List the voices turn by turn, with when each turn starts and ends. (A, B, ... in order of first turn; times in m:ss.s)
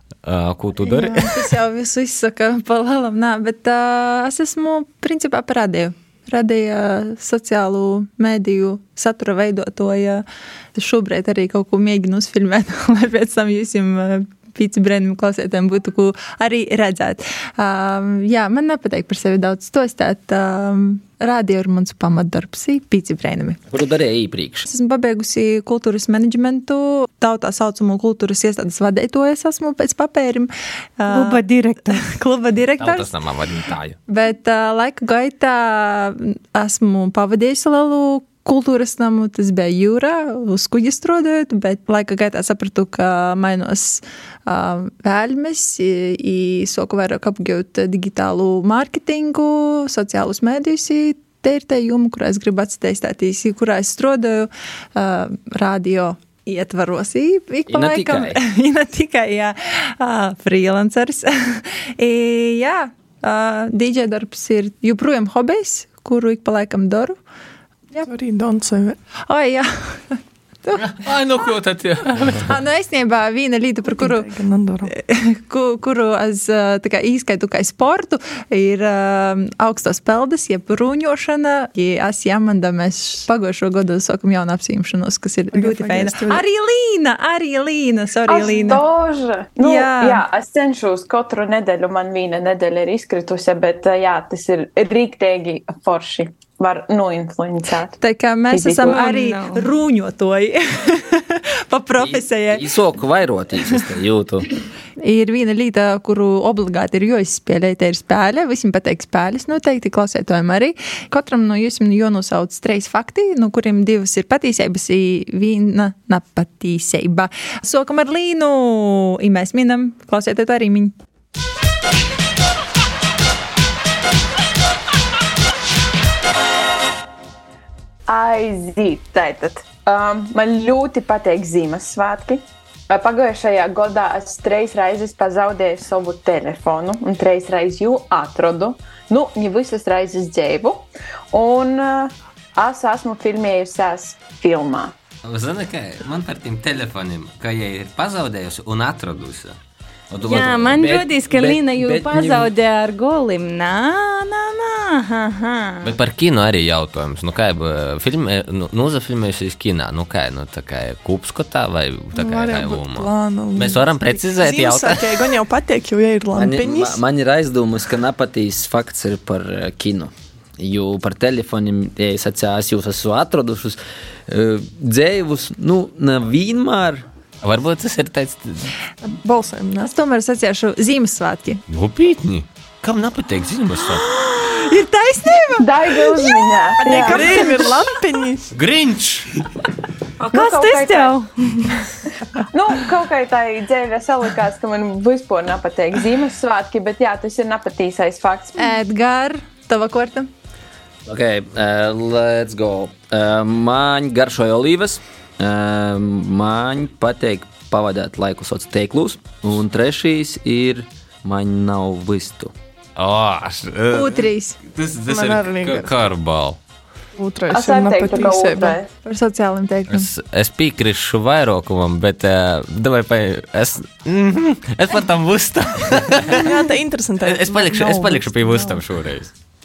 0:00.2-0:01.5 A
0:00.8-0:23.6 B
0:23.7-0:24.6 C
0:24.6-0:33.1 B
0:31.1-0:32.0 D
0:32.8-0:34.0 A
0:34.1-1:07.2 B
0:57.7-0:58.4 C
1:08.0-1:09.0 E
1:09.3-1:11.0 B
1:10.8-1:12.5 A
1:12.4-1:14.3 B
1:13.9-1:14.9 E
1:14.9-1:28.8 B
1:25.5-1:26.4 E
1:28.3-1:38.0 F
1:29.6-1:30.2 B
1:38.0-1:42.7 B
1:38.5-1:39.0 F
1:38.8-1:39.7 D
1:42.0-1:44.5 C
1:45.0-2:00.9 B
2:08.1-2:24.9 F
2:25.2-2:29.6 A
2:30.1-2:32.5 C
2:30.2-2:30.8 A
2:30.2-2:35.9 D
2:35.8-2:45.3 A
2:42.1-2:47.0 E
2:46.3-2:57.0 C
2:57.4-2:58.7 A
2:59.2-2:59.9 E
2:59.8-3:01.6 B
3:01.7-3:04.1 A
3:04.2-3:07.8 B
3:05.6-3:07.5 F
3:06.8-3:08.5 E
3:08.5-3:09.3 A
3:10.2-3:11.9 D
3:10.3-3:11.2 F
3:12.5-3:18.7 F
3:18.6-3:20.3 B
3:21.0-3:32.5 C
3:33.0-3:36.6 A
3:33.9-3:34.6 B
3:35.1-3:36.0 E
3:37.2-3:38.8 E
3:37.5-3:38.9 F
3:39.0-3:40.1 B
3:39.9-3:46.5 A
3:46.3-3:48.7 E
3:47.2-3:49.3 A